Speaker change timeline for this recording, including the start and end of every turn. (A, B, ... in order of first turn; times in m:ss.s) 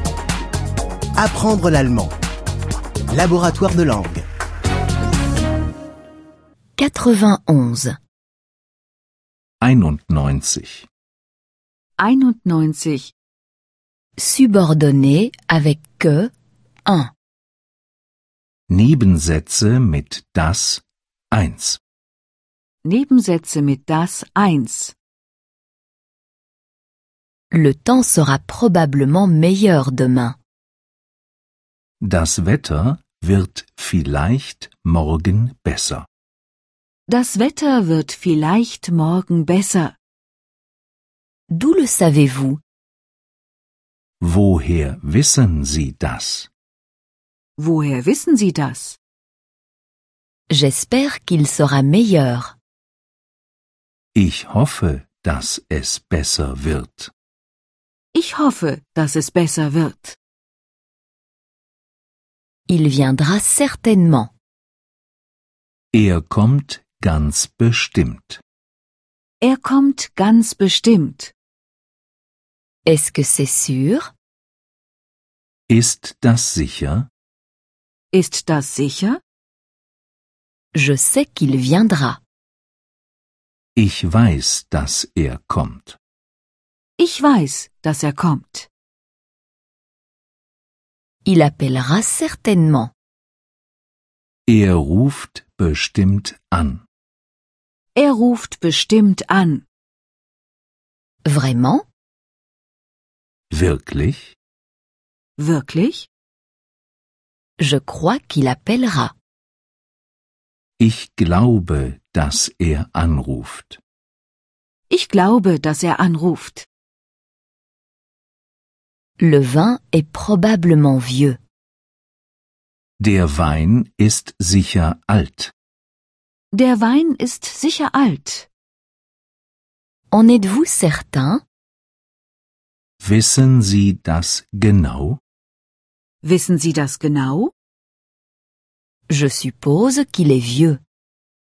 0:01.2-0:02.1 A
0:03.1-0:04.2 A
0:06.8-0:08.0 B
0:09.6-0:10.9 C
0:12.0-0:13.1 D
0:14.2-0:16.3 B
0:16.8-0:17.1 B
0:18.7-0:21.8 C
0:22.8-0:24.9 D
0:27.5-0:30.4 B
0:32.0-0:36.0 C
0:37.1-0:40.0 D
0:41.5-0:42.6 B
0:44.2-0:46.5 C
0:47.6-0:49.0 D
0:50.5-0:52.5 B
0:54.1-0:57.1 C
0:58.1-1:00.2 D
1:02.7-1:04.3 B
1:05.9-1:08.4 C
1:09.4-1:11.3 D
1:12.8-1:14.1 B
1:15.7-1:17.1 C
1:18.1-1:19.2 D
1:20.7-1:22.2 B
1:23.8-1:26.0 C
1:27.0-1:28.7 D
1:31.2-1:32.9 B
1:34.5-1:36.8 C
1:37.9-1:39.6 D
1:41.2-1:41.8 B
1:43.5-1:44.4 C
1:45.4-1:46.1 D
1:47.6-1:49.1 B
1:50.8-1:53.8 C
1:54.9-1:56.7 D
1:59.2-2:01.4 B
2:03.0-2:05.5 C
2:06.5-2:08.5 D
2:10.1-2:11.4 B
2:13.0-2:15.2 C
2:16.2-2:17.5 D
2:19.1-2:20.8 B